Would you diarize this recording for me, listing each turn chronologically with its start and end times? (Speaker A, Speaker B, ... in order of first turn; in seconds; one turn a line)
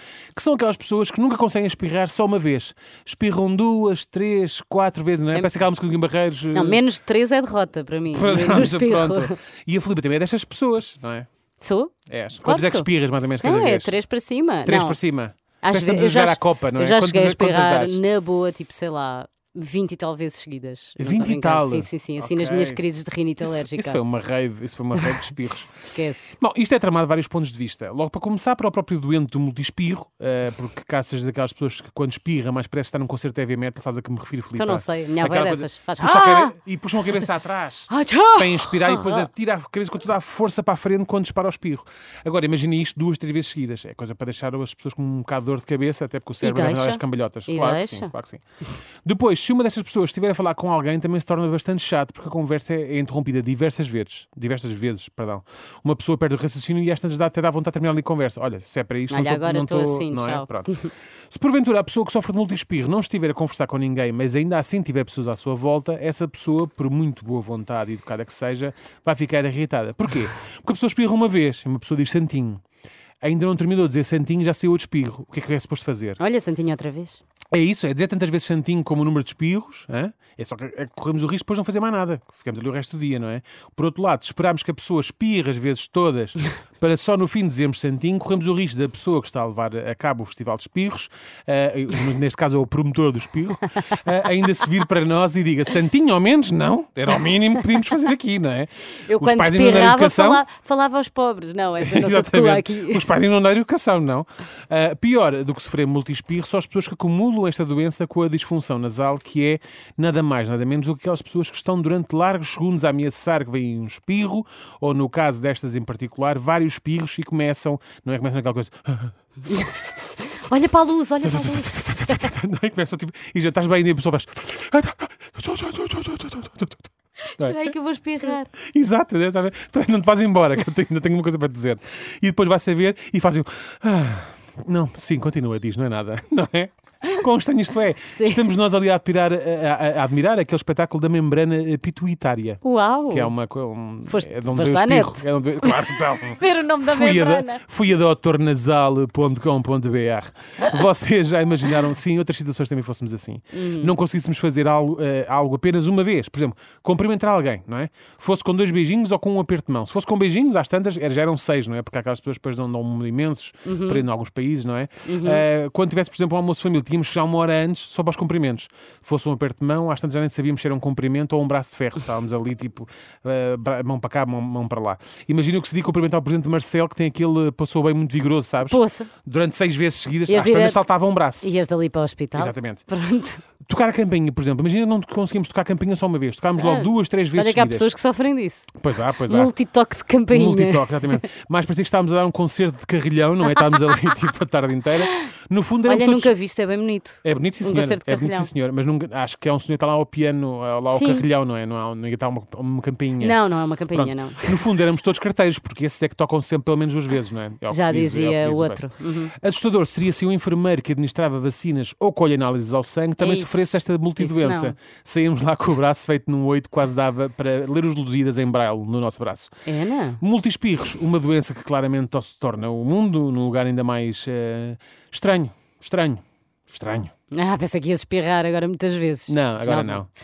Speaker A: 0.3-6.8
Speaker B: 6.5-9.3
Speaker A: 8.1-11.3
Speaker B: 11.6-12.9
Speaker A: 12.1-13.9
Speaker B: 13.4-15.0
Speaker A: 14.6-18.0
Speaker B: 15.6-24.0
Speaker A: 21.0-22.8
Speaker A: 23.4-25.8
Speaker B: 25.8-26.4
Speaker A: 26.4-48.4
Speaker B: 34.5-36.5
Speaker B: 37.9-39.3
Speaker B: 46.4-48.1
Speaker A: 49.0-60.7
Speaker B: 59.1-60.9
Speaker A: 61.3-72.6
Speaker A: 73.2-76.2
Speaker B: 76.2-77.2
Speaker A: 77.5-100.4
Speaker B: 99.0-103.1
Speaker A: 101.8-119.2
Speaker B: 120.2-122.2
Speaker A: 121.2-126.9
Speaker B: 127.3-128.5
Speaker A: 128.2-181.5
Speaker B: 138.1-138.4
Speaker B: 142.6-143.3
Speaker B: 144.1-147.6
Speaker B: 153.5-153.9
Speaker B: 163.7-164.0
Speaker B: 165.0-165.4
Speaker B: 178.6-179.1
Speaker B: 180.3-180.8
Speaker B: 181.4-183.4
Speaker A: 182.3-182.8
Speaker A: 183.6-187.9
Speaker B: 186.6-188.7
Speaker A: 188.7-189.5
Speaker B: 189.3-191.2
Speaker A: 190.3-196.3
Speaker B: 195.9-198.5
Speaker A: 197.2-203.4
Speaker B: 200.9-201.2
Speaker B: 203.2-204.6
Speaker A: 203.9-219.5
Speaker B: 207.7-209.3
Speaker B: 213.2-214.7
Speaker B: 219.7-220.2
Speaker A: 220.2-227.1
Speaker B: 227.3-230.0
Speaker A: 229.3-230.1